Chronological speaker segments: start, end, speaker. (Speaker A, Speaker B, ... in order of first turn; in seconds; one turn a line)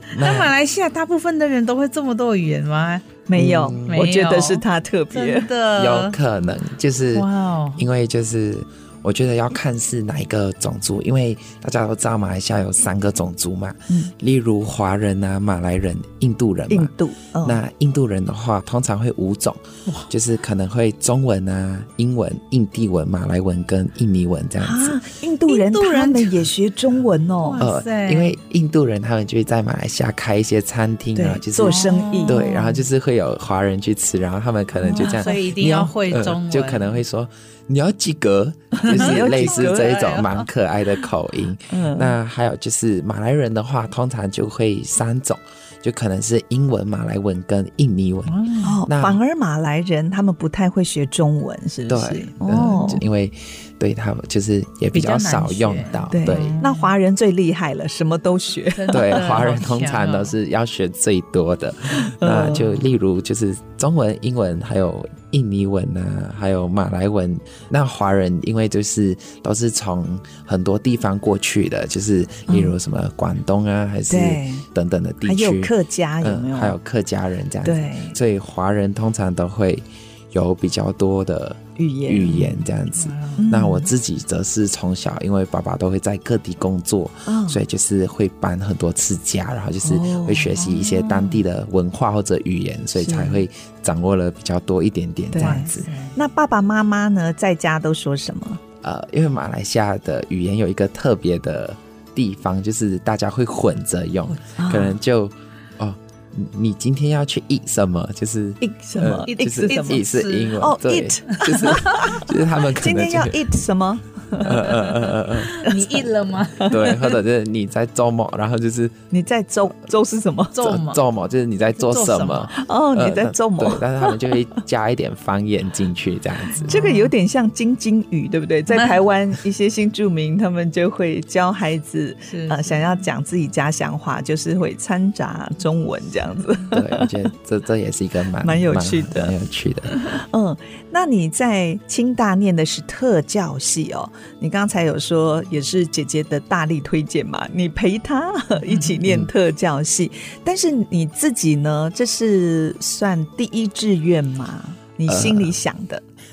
Speaker A: 0.1-0.5
Speaker B: 0.1-3.2
Speaker C: 3.3-5.5
Speaker A: 3.3-4.0
Speaker B: 3.9-6.2
Speaker A: 5.8-16.9
Speaker B: 7.1-7.8
Speaker C: 16.7-17.6
Speaker A: 17.4-25.0
Speaker C: 24.6-27.6
Speaker B: 25.5-26.4
Speaker B: 27.4-28.3
Speaker A: 27.6-49.2
Speaker C: 31.1-32.4
Speaker B: 31.6-32.9
Speaker C: 34.8-35.2
Speaker B: 35.0-37.0
Speaker C: 38.7-40.2
Speaker B: 38.9-40.4
Speaker C: 41.7-42.1
Speaker B: 48.3-48.8
Speaker C: 48.6-53.0
Speaker A: 51.9-56.6
Speaker B: 54.9-56.9
Speaker C: 56.1-59.2
Speaker B: 58.7-60.3
Speaker A: 58.9-95.9
Speaker C: 62.2-62.7
Speaker C: 72.5-72.7
Speaker C: 74.1-74.6
Speaker C: 75.2-76.8
Speaker C: 77.6-78.2
Speaker C: 81.8-82.5
Speaker B: 83.0-83.4
Speaker C: 83.4-83.9
Speaker C: 87.2-87.6
Speaker C: 89.8-90.5
Speaker B: 90.5-91.4
Speaker C: 93.0-93.4
Speaker C: 95.3-98.6
Speaker B: 95.4-96.1
Speaker A: 98.8-113.4
Speaker C: 104.6-104.9
Speaker C: 108.6-110.0
Speaker B: 109.3-110.6
Speaker C: 110.6-114.5
Speaker B: 111.4-112.0
Speaker A: 114.4-115.6
Speaker B: 114.5-117.2
Speaker A: 116.7-119.0
Speaker C: 119.1-120.5
Speaker B: 120.5-121.0
Speaker A: 120.6-126.8
Speaker B: 121.8-122.5
Speaker C: 122.5-124.2
Speaker B: 126.6-127.1
Speaker C: 126.6-137.1
Speaker B: 132.2-132.8
Speaker A: 136.7-139.9
Speaker C: 138.4-139.3
Speaker C: 140.0-156.0
Speaker B: 148.7-148.9
Speaker A: 155.1-155.6